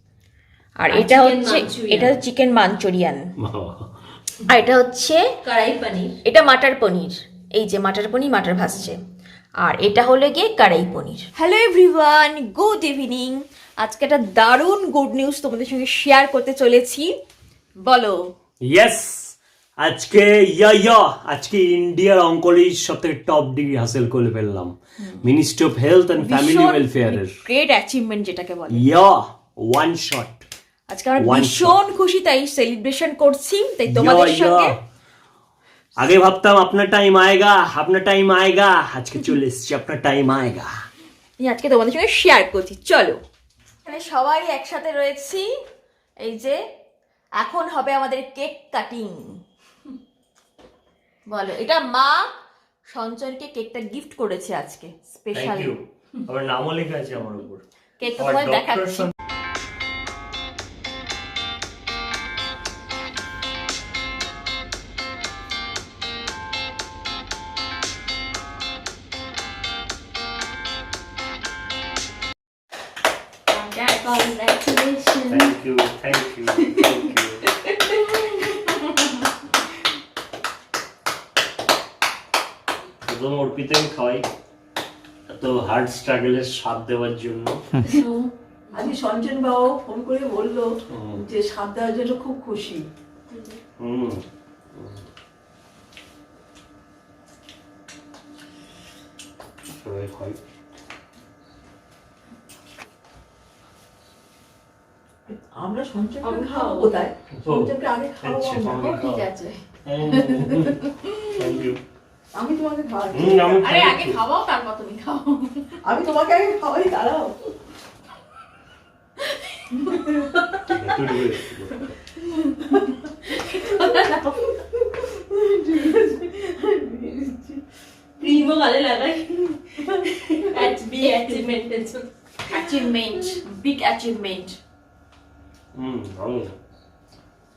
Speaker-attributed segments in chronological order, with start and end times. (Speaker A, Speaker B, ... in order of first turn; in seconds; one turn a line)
Speaker A: 0.8-3.3
Speaker B: 0.9-2.2
Speaker C: 3.4-3.9
Speaker A: 4.5-5.2
Speaker B: 5.4-6.2
Speaker A: 6.2-9.0
Speaker A: 9.6-17.1
Speaker A: 17.8-18.3
Speaker C: 18.6-27.4
Speaker A: 26.2-28.8
Speaker C: 28.7-30.5
Speaker A: 30.9-34.8
Speaker C: 31.2-31.8
Speaker C: 33.9-34.8
Speaker C: 36.0-40.7
Speaker A: 41.4-43.2
Speaker A: 43.9-45.5
Speaker A: 46.2-46.6
Speaker A: 47.4-49.4
Speaker A: 51.3-52.3
Speaker A: 52.9-55.7
Speaker C: 55.3-57.6
Speaker A: 58.0-59.1
Speaker C: 58.2-59.1
Speaker B: 73.5-75.5
Speaker C: 75.3-77.4
Speaker B: 76.7-77.1
Speaker B: 77.7-78.8
Speaker C: 83.0-84.3
Speaker C: 85.3-87.7
Speaker D: 88.7-92.8
Speaker C: 90.9-91.2
Speaker B: 93.3-93.6
Speaker C: 93.8-95.0
Speaker C: 99.6-100.4
Speaker D: 105.3-109.0
Speaker B: 106.2-107.0
Speaker C: 107.3-109.3
Speaker A: 108.8-109.6
Speaker C: 109.8-111.8
Speaker D: 112.3-113.6
Speaker C: 113.1-114.2
Speaker A: 113.5-115.8
Speaker D: 115.8-117.5
Speaker C: 120.6-121.9
Speaker A: 123.5-124.2
Speaker B: 123.6-124.2
Speaker D: 125.1-127.6
Speaker B: 128.2-132.1
Speaker A: 131.0-131.4
Speaker A: 132.4-134.6
Speaker C: 135.7-136.6